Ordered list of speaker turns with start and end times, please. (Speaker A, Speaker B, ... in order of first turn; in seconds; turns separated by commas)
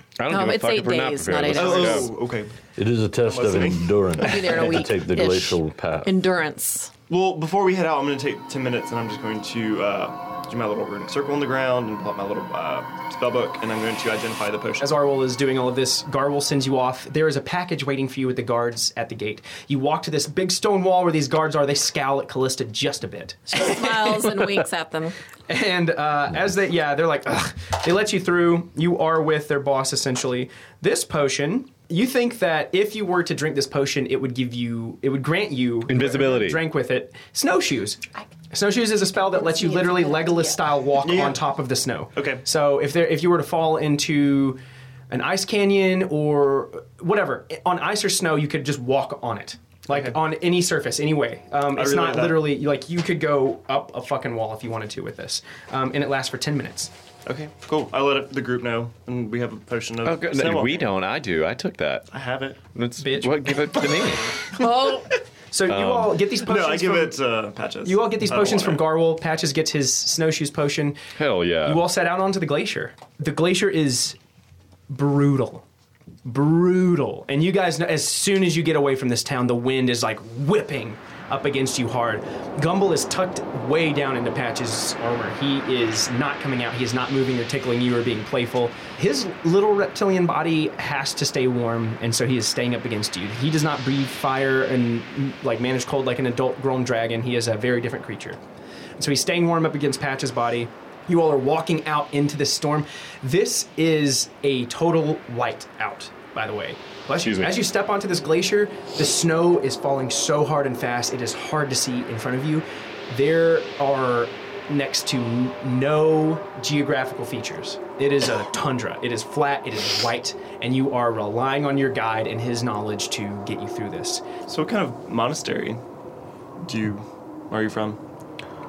Speaker A: 0.2-2.1, Speaker B: 0.3-2.1, Speaker C: 1.4-2.5, Speaker D: 2.8-6.1, Speaker C: 3.2-4.7, Speaker B: 4.2-6.9, Speaker C: 7.1-14.9, Speaker E: 14.8-24.2, Speaker B: 23.5-25.1, Speaker E: 25.5-56.9, Speaker A: 35.9-36.6, Speaker B: 39.1-40.7, Speaker C: 41.0-41.5, Speaker C: 42.1-42.4, Speaker C: 49.9-50.2, Speaker C: 51.7-52.5, Speaker C: 57.2-60.9, Speaker A: 60.0-62.1, Speaker C: 62.1-62.6, Speaker A: 62.7-64.4, Speaker E: 63.0-63.8, Speaker E: 64.6-67.2, Speaker A: 65.7-66.2, Speaker C: 66.4-68.9, Speaker E: 67.8-71.0, Speaker A: 71.2-71.8, Speaker E: 71.6-74.2, Speaker E: 74.9-75.6, Speaker E: 76.2-98.4, Speaker E: 99.0-124.2, Speaker A: 107.1-107.7, Speaker C: 124.5-125.8, Speaker C: 126.6-128.0